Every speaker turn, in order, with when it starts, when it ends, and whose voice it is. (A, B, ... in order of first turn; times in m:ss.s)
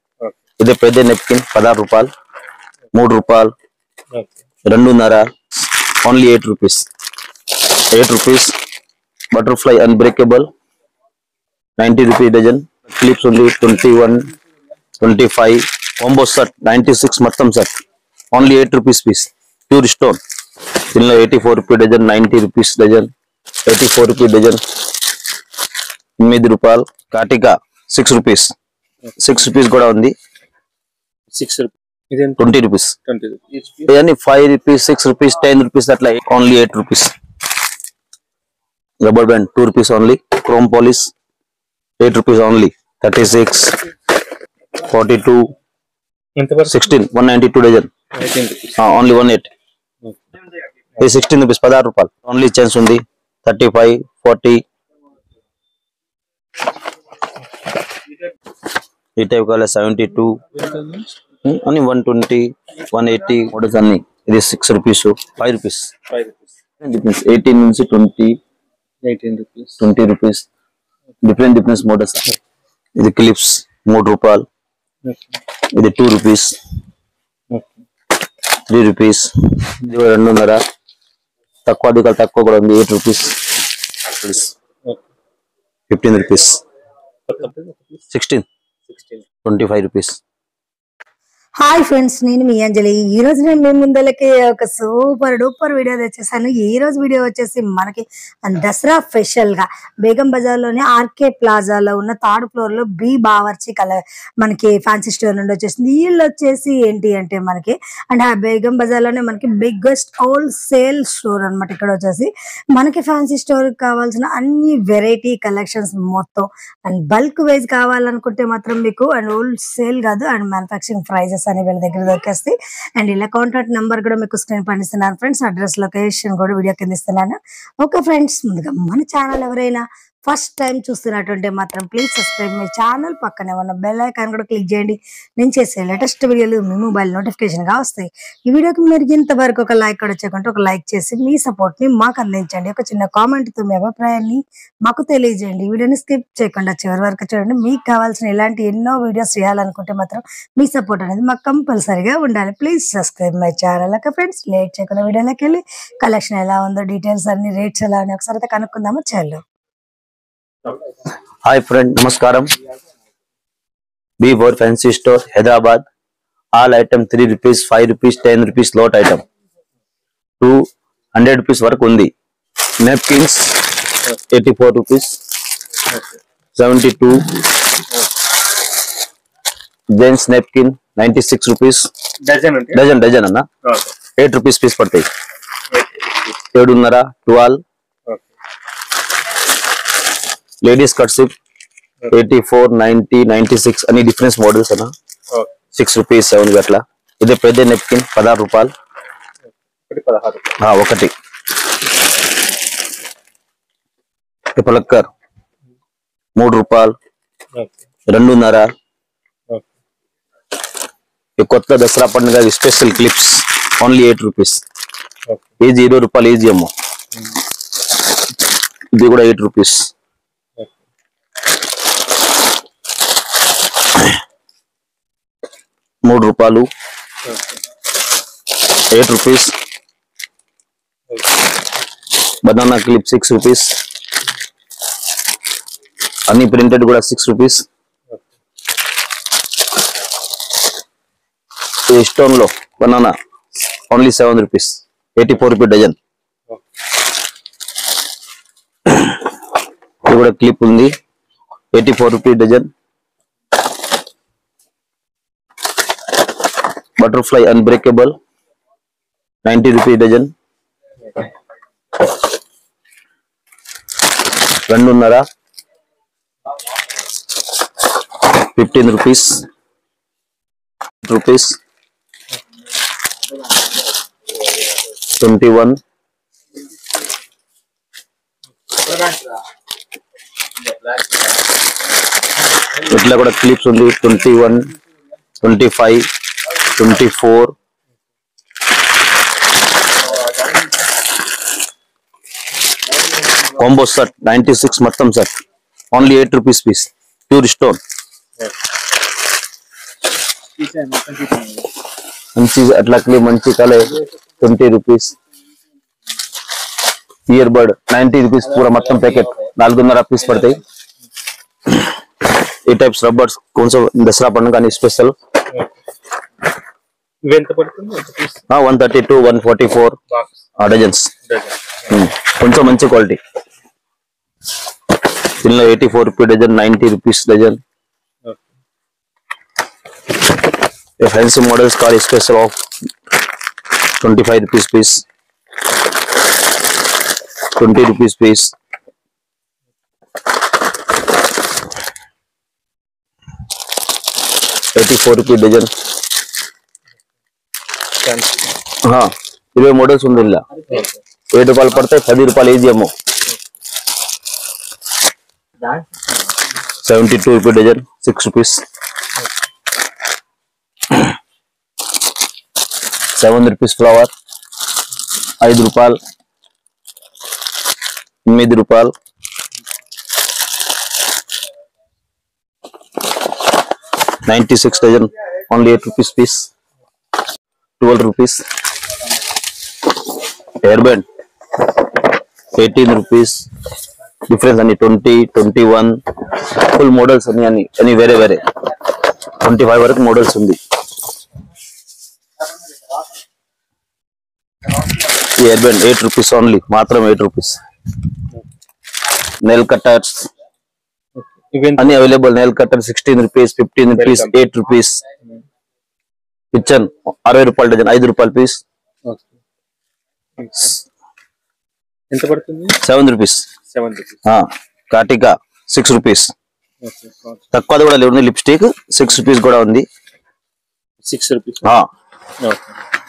0:00.6-0:02.1 A
0:02.9-0:03.5 A
0:04.6-0:05.3 A
0:06.0-0:06.8 A
0:07.8-0:08.5 A
0:09.3-0:10.5 A
0:11.8-0:14.3 A
0:15.0-0:17.7 A
0:18.3-0:20.2 A
0:20.9-0:23.1 A
0:23.6-0:24.6 A
0:26.2-0:28.5 A
0:29.2-0:30.1 A
0:31.3-0:32.4 B
0:32.4-0:33.0 A
0:33.0-0:33.9 B
0:33.8-0:37.1 A
0:39.0-0:41.1 A
0:42.0-0:43.8 A
0:44.8-0:45.5 A
0:46.4-0:46.8 B
0:46.6-0:47.9 A
0:48.1-0:48.8 B
0:48.8-0:49.5 A
0:51.0-0:54.6 A
0:59.2-1:00.4 A
1:00.5-1:01.1 B
1:01.4-1:05.9 A
1:06.1-1:06.5 B
1:06.8-1:08.4 A
1:09.0-1:09.8 B
1:09.8-1:10.5 A
1:11.2-1:12.2 A
1:13.0-1:14.5 A
1:15.0-1:15.4 B
1:15.6-1:16.6 A
1:17.5-1:17.8 B
1:18.7-1:20.6 A
1:21.7-1:23.4 A
1:24.1-1:24.5 A
1:25.9-1:26.6 A
1:27.3-1:28.0 B
1:28.1-1:28.5 A
1:28.9-1:29.2 B
1:29.4-1:30.2 A
1:31.6-2:39.4 C
2:41.4-2:42.5 A
2:44.2-2:45.8 A
2:46.5-2:49.2 A
2:50.4-2:52.1 A
2:52.8-2:53.6 A
2:54.3-2:55.2 A
2:55.9-2:56.2 B
2:56.6-2:57.4 A
2:59.9-3:01.9 A
3:02.2-3:02.8 B
3:02.7-3:03.5 A
3:04.2-3:05.1 A
3:06.5-3:07.6 A
3:10.6-3:11.3 A
3:12.1-3:14.9 A
3:15.8-3:18.7 A
3:19.9-3:20.6 B
3:20.6-3:21.1 A
3:24.5-3:25.1 A
3:26.4-3:27.0 A
3:28.1-3:28.7 A
3:31.4-3:34.6 A
3:35.6-3:36.7 A
3:38.9-3:39.8 A
3:46.0-3:46.7 A
3:47.3-3:47.5 B
3:48.9-3:49.5 A
3:52.4-3:53.8 A
3:56.3-3:57.6 A
4:01.9-4:03.1 A
4:03.9-4:06.0 A
4:10.0-4:10.9 A
4:11.7-4:12.7 A
4:17.0-4:18.2 A
4:19.4-4:20.3 A
4:24.7-4:25.2 A
4:28.4-4:29.4 A
4:31.0-4:31.6 A
4:35.1-4:35.8 A
4:42.8-4:44.7 A
4:45.4-4:46.1 A
4:46.6-4:47.6 A
4:53.5-4:55.3 A
4:55.9-4:57.8 A
5:00.6-5:01.6 B
5:02.4-5:05.2 A
5:07.3-5:10.6 A
5:12.6-5:15.2 A
5:17.2-5:18.4 B
5:18.5-5:20.0 A
5:20.6-5:21.1 A
5:21.3-5:21.8 B
5:21.9-5:23.2 A
5:25.4-5:27.6 A
5:31.0-5:32.6 A
5:34.0-5:35.0 A
5:37.6-5:38.5 A
5:44.8-5:45.7 A
5:48.0-5:48.4 B
5:48.8-5:50.5 A
5:50.7-5:50.9 B
5:51.3-5:52.9 A
5:56.8-5:58.6 A
6:03.1-6:04.1 A
6:05.4-6:06.0 A
6:08.3-6:08.9 A
6:14.2-6:16.5 A
6:17.8-6:18.4 A
6:20.6-6:21.1 A
6:22.5-6:23.5 A
6:24.3-6:28.5 A
6:29.4-6:30.6 A
6:35.2-6:37.6 A
6:39.4-6:40.3 A
6:41.2-6:42.0 B
6:41.8-6:45.0 A
6:43.9-6:44.3 B
6:46.5-6:48.6 A
6:50.4-6:50.7 B
6:52.1-6:52.8 B
6:52.8-6:53.5 A
6:53.7-6:54.2 B
6:54.2-6:56.3 A
6:56.8-6:57.4 B
6:57.5-6:59.9 A
7:01.0-7:01.7 B
7:01.6-7:01.9 A
7:02.4-7:02.7 B